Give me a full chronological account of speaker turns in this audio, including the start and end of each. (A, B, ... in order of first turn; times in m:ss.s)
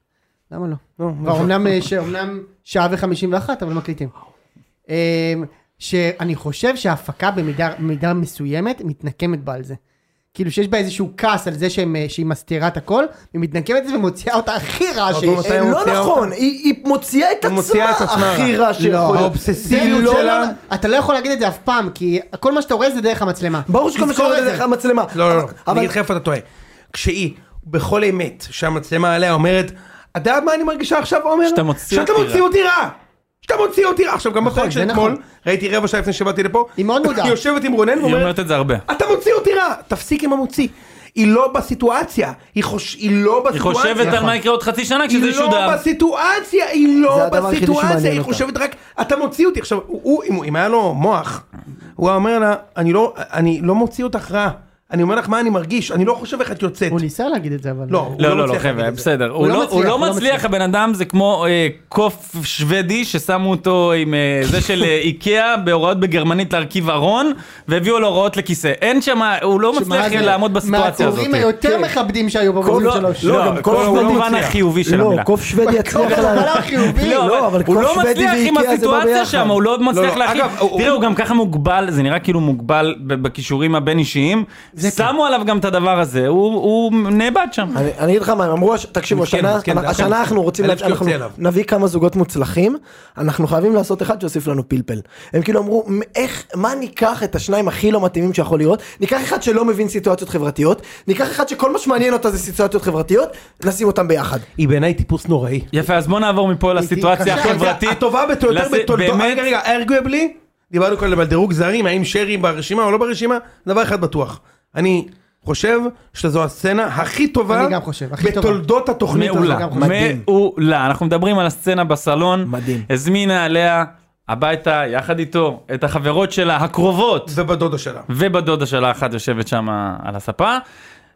0:00.5-0:04.1 A
0:01.0-0:01.7 B
0:04.9-0:09.8 A
0:10.3-0:15.5 A
0:15.1-0:16.3 B
0:15.2-0:20.5 C
0:17.4-0:18.6 B
0:18.8-0:24.6 A
0:19.1-0:20.5 B
0:23.7-0:25.9 C
0:25.1-0:38.3 B
0:31.4-0:32.4 D
0:34.4-0:35.2 A
0:36.8-0:37.4 A
0:38.0-0:38.8 D
0:38.9-0:44.3 B
0:43.5-0:45.8 D
0:44.0-0:44.4 A
0:45.1-0:51.4 B
0:47.1-0:48.4 C
0:52.0-0:57.0 B
0:56.9-0:58.2 A
0:57.9-0:59.0 B
0:58.2-1:11.5 D
0:59.4-1:00.4 A
1:09.7-1:13.3 A
1:11.6-1:11.9 C
1:12.6-1:19.6 C
1:12.6-1:15.3 D
1:13.6-1:14.6 B
1:15.6-1:17.2 A
1:15.9-1:27.7 D
1:19.9-1:21.0 B
1:24.8-1:25.1 A
1:27.7-1:44.4 C
1:29.1-1:31.4 B
1:44.6-1:45.7 B
1:45.7-1:49.5 D
1:46.8-1:47.6 A
1:47.2-1:59.7 B
1:57.5-1:58.6 A
1:59.1-2:07.4 D
1:59.1-2:00.0 A
1:59.8-2:00.2 C
2:02.4-2:02.8 C
2:07.3-2:08.1 B
2:08.1-2:10.6 D